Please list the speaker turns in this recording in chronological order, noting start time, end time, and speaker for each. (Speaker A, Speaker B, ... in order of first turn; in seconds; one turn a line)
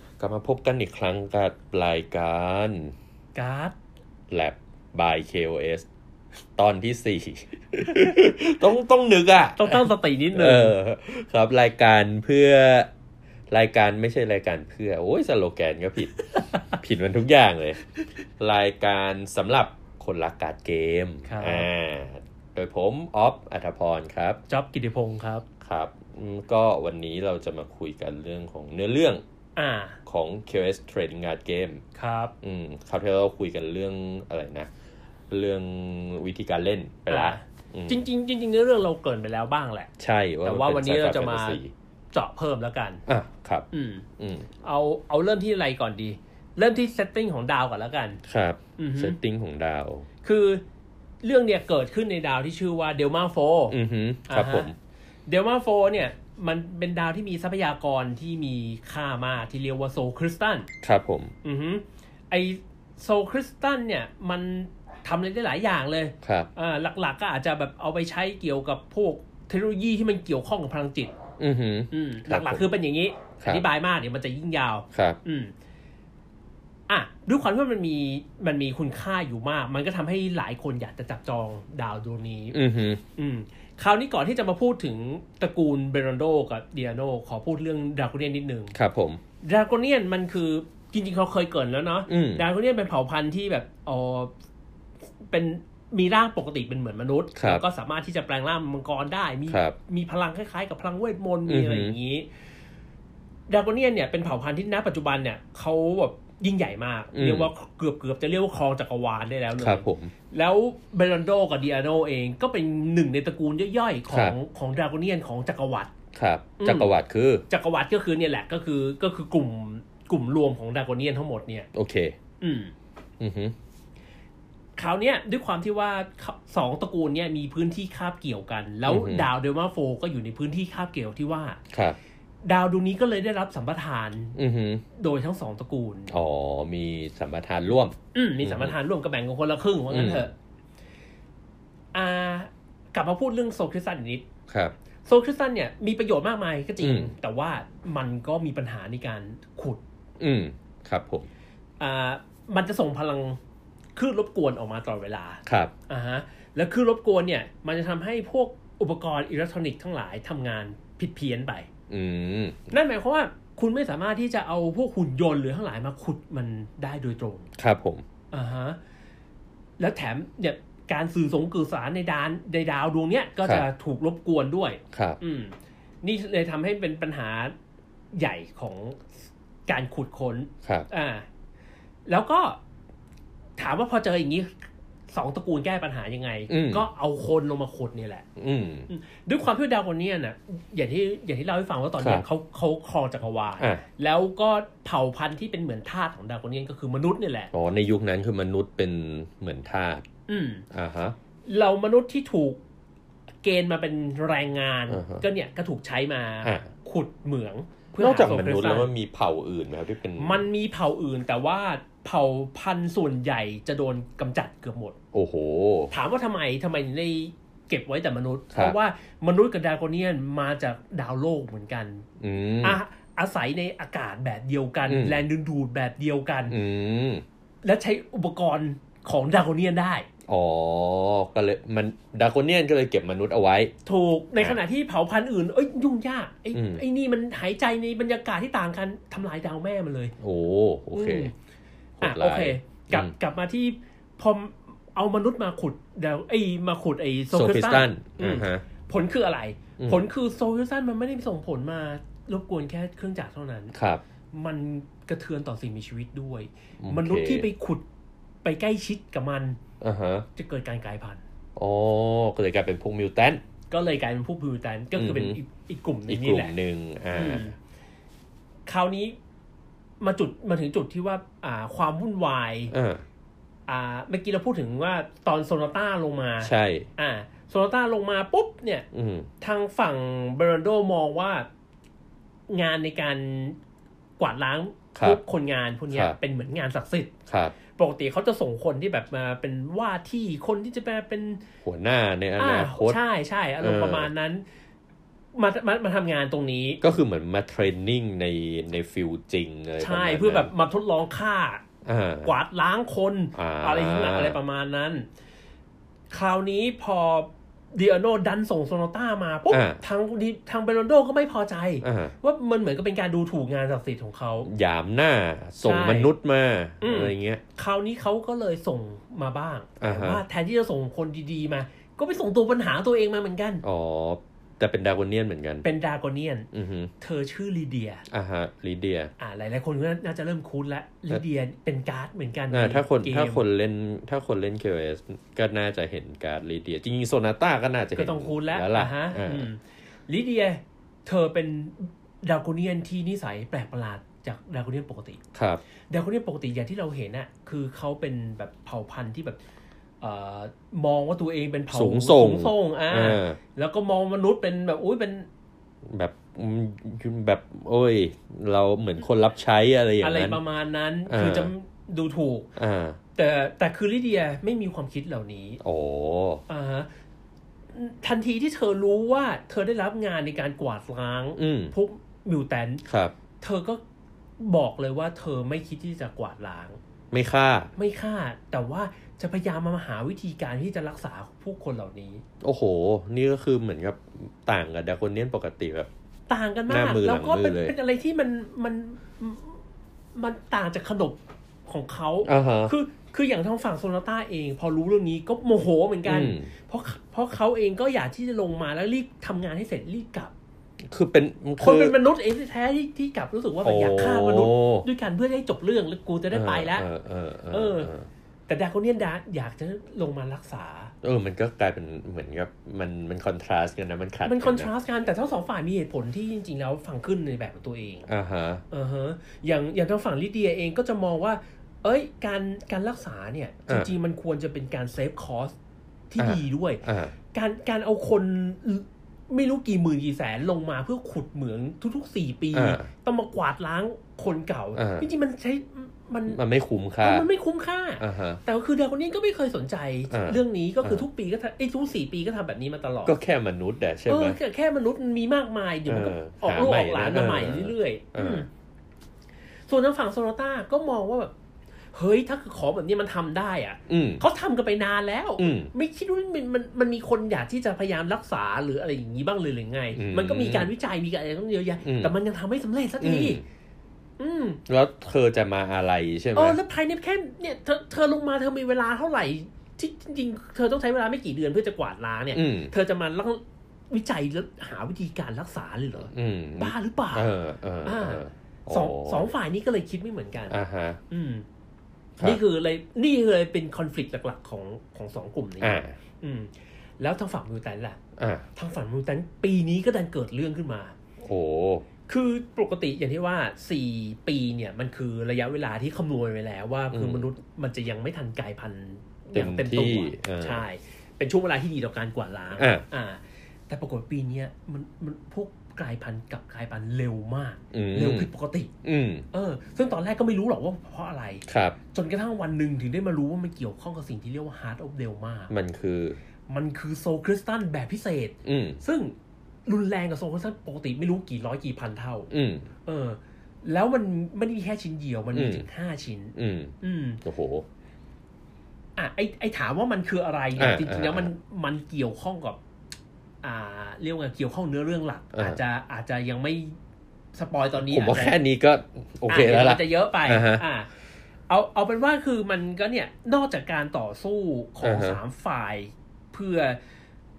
Speaker A: 0.2-2.9
Speaker B: 3.3-3.7
Speaker A: 4.3-5.8
Speaker A: 6.6-12.9
Speaker B: 9.6-10.8
Speaker A: 13.5-17.8
Speaker A: 18.4-24.4
Speaker B: 21.2-21.7
Speaker B: 24.5-25.4
Speaker A: 25.6-29.2
Speaker B: 29.6-30.0
Speaker A: 30.1-31.8
Speaker B: 31.9-32.3
Speaker A: 32.4-34.7
Speaker A: 35.3-38.0
Speaker B: 37.1-39.9
Speaker A: 40.0-41.7
Speaker B: 40.4-41.6
Speaker B: 42.1-43.0
Speaker A: 43.1-43.7
Speaker B: 43.7-44.0
Speaker A: 44.2-44.5
Speaker B: 44.6-48.2
Speaker A: 48.2-50.1
Speaker B: 48.8-49.2
Speaker B: 50.2-50.6
Speaker B: 51.2-53.8
Speaker A: 53.7-54.8
Speaker B: 54.3-54.7
Speaker B: 55.3-60.7
Speaker A: 60.8-61.3
Speaker B: 61.4-71.1
Speaker A: 66.2-66.5
Speaker A: 71.4-72.7
Speaker B: 71.9-75.5
Speaker A: 74.9-75.2
Speaker B: 76.9-82.6
Speaker A: 82.5-83.0
Speaker B: 83.2-88.7
Speaker A: 88.7-89.2
Speaker B: 89.4-94.3
Speaker A: 92.1-92.4
Speaker B: 95.2-102.3
Speaker A: 97.3-97.6
Speaker A: 99.5-99.8
Speaker A: 101.5-102.0
Speaker B: 103.5-115.9
Speaker A: 107.1-107.5
Speaker A: 109.5-110.1
Speaker A: 114.1-114.4
Speaker A: 116.1-117.4
Speaker B: 116.6-116.9
Speaker B: 117.5-121.7
Speaker A: 121.7-122.2
Speaker B: 122.4-122.7
Speaker A: 123.2-123.5
Speaker B: 124.8-131.6
Speaker A: 128.8-129.3
Speaker A: 131.7-132.0
Speaker B: 132.4-134.4
Speaker A: 134.3-134.8
Speaker B: 134.9-136.1
Speaker A: 136.1-138.7
Speaker B: 138.1-140.3
Speaker A: 139.9-140.3
Speaker B: 141.9-144.2
Speaker A: 144.5-144.7
Speaker B: 145.1-149.8
Speaker A: 146.8-147.1
Speaker A: 150.2-151.3
Speaker B: 151.8-153.4
Speaker B: 153.9-161.7
Speaker A: 155.4-155.7
Speaker A: 161.9-162.7
Speaker B: 162.7-167.5
Speaker A: 167.6-168.0
Speaker B: 168.3-168.8
Speaker B: 169.8-177.5
Speaker A: 173.4-173.7
Speaker A: 174.9-175.2
Speaker B: 178.1-179.1
Speaker B: 179.7-181.2
Speaker B: 182.1-182.6
Speaker B: 183.6-184.6
Speaker B: 185.1-188.2
Speaker A: 186.5-186.9
Speaker A: 188.4-188.9
Speaker B: 188.9-197.5
Speaker A: 192.0-192.2
Speaker A: 197.5-200.0
Speaker B: 200.3-200.7
Speaker A: 200.7-201.2
Speaker B: 201.4-202.6
Speaker B: 203.4-208.9
Speaker A: 204.9-205.2
Speaker A: 208.0-210.5
Speaker B: 210.2-214.9
Speaker A: 215.1-215.9
Speaker B: 215.9-222.0
Speaker A: 222.2-222.8
Speaker B: 222.6-226.6
Speaker A: 224.9-225.2
Speaker A: 226.5-227.2
Speaker B: 227.6-230.1
Speaker A: 230.3-233.7
Speaker B: 233.8-240.1
Speaker A: 236.5-236.8
Speaker A: 240.2-241.3
Speaker B: 240.9-241.3
Speaker A: 242.0-243.1
Speaker B: 242.0-253.7
Speaker A: 247.3-248.6
Speaker A: 253.7-254.0
Speaker B: 254.3-257.8
Speaker A: 256.8-257.5
Speaker B: 258.4-259.6
Speaker A: 259.8-260.2
Speaker B: 260.4-261.2
Speaker A: 261.6-263.4
Speaker B: 263.7-266.5
Speaker A: 264.9-265.4
Speaker A: 266.1-267.5
Speaker B: 267.1-267.6
Speaker B: 268.7-269.1
Speaker B: 270.0-272.7
Speaker A: 272.7-273.0
Speaker B: 273.7-278.9
Speaker A: 276.4-276.9
Speaker A: 278.9-279.3
Speaker B: 279.4-281.5
Speaker B: 282.5-283.6
Speaker B: 284.2-287.1
Speaker A: 284.9-285.2
Speaker A: 285.9-286.1
Speaker A: 287.3-287.6
Speaker B: 287.8-291.4
Speaker A: 291.6-293.0
Speaker B: 292.4-294.4
Speaker A: 293.6-294.1
Speaker B: 295.3-296.8
Speaker A: 296.8-300.5
Speaker B: 299.8-301.6
Speaker A: 301.8-302.3
Speaker B: 302.2-305.1
Speaker A: 303.3-304.4
Speaker B: 306.1-314.5
Speaker A: 309.5-309.8
Speaker A: 311.8-312.1
Speaker A: 314.4-317.4
Speaker B: 315.6-316.1
Speaker B: 316.8-323.6
Speaker A: 319.8-320.2
Speaker A: 323.6-325.6
Speaker B: 325.6-326.5
Speaker A: 326.5-326.9
Speaker B: 327.0-328.0
Speaker A: 328.1-329.1
Speaker B: 329.2-333.4
Speaker A: 332.5-339.5
Speaker B: 337.9-345.2
Speaker A: 345.3-345.6
Speaker B: 345.9-349.4
Speaker B: 350.0-355.3
Speaker A: 351.7-353.4
Speaker A: 355.9-360.4
Speaker B: 360.0-362.5
Speaker A: 361.1-361.5
Speaker A: 362.6-363.0
Speaker B: 363.1-365.6
Speaker A: 365.6-366.4
Speaker B: 366.5-366.9
Speaker B: 367.7-372.8
Speaker A: 371.4-371.7
Speaker A: 372.9-373.1
Speaker B: 373.4-373.8
Speaker B: 374.4-376.8
Speaker A: 377.1-377.7
Speaker B: 377.8-382.2
Speaker A: 382.4-385.9
Speaker B: 386.3-389.6
Speaker A: 386.7-387.7
Speaker B: 390.1-400.3
Speaker A: 392.2-392.7
Speaker A: 396.0-396.5
Speaker A: 400.9-401.9
Speaker B: 401.6-406.9
Speaker A: 403.6-404.9
Speaker A: 406.3-408.1
Speaker B: 407.5-407.9
Speaker B: 408.5-410.9
Speaker A: 411.0-414.7
Speaker B: 414.2-418.1
Speaker A: 418.1-418.6
Speaker B: 418.7-425.5
Speaker B: 426.1-436.4
Speaker A: 426.2-427.1
Speaker A: 432.5-432.9
Speaker A: 434.7-435.1
Speaker A: 436.3-437.3
Speaker B: 437.0-443.1
Speaker A: 438.0-438.4
Speaker A: 440.1-441.0
Speaker A: 443.0-444.4
Speaker B: 444.1-448.5
Speaker A: 445.9-448.4
Speaker B: 449.7-451.3
Speaker B: 451.9-463.4
Speaker A: 453.9-454.2
Speaker A: 455.4-455.7
Speaker A: 459.9-460.7
Speaker A: 461.8-462.1
Speaker A: 463.0-463.4
Speaker B: 464.2-464.6
Speaker A: 464.7-466.6
Speaker B: 466.3-477.3
Speaker A: 472.3-472.7
Speaker A: 476.1-479.3
Speaker B: 477.8-480.6
Speaker A: 480.5-481.0
Speaker B: 481.1-481.4
Speaker B: 482.2-488.0
Speaker A: 485.6-486.0
Speaker A: 488.2-488.4
Speaker B: 488.5-490.9
Speaker A: 491.2-491.9
Speaker B: 492.1-508.7
Speaker A: 496.9-497.3
Speaker A: 499.3-500.6
Speaker A: 502.5-502.8
Speaker A: 507.7-508.3
Speaker A: 508.8-509.2
Speaker B: 509.3-515.5
Speaker A: 511.5-511.8
Speaker A: 515.5-516.2
Speaker B: 516.5-519.1
Speaker A: 518.4-518.8
Speaker B: 519.6-522.3
Speaker A: 522.3-522.7
Speaker B: 522.9-527.2
Speaker A: 525.3-525.6
Speaker A: 526.4-527.6
Speaker B: 529.0-532.6
Speaker A: 530.6-531.3
Speaker B: 533.4-536.8
Speaker A: 535.3-535.6
Speaker B: 537.3-538.4
Speaker A: 537.8-540.6
Speaker B: 539.3-540.9
Speaker B: 541.5-546.8
Speaker A: 544.8-545.2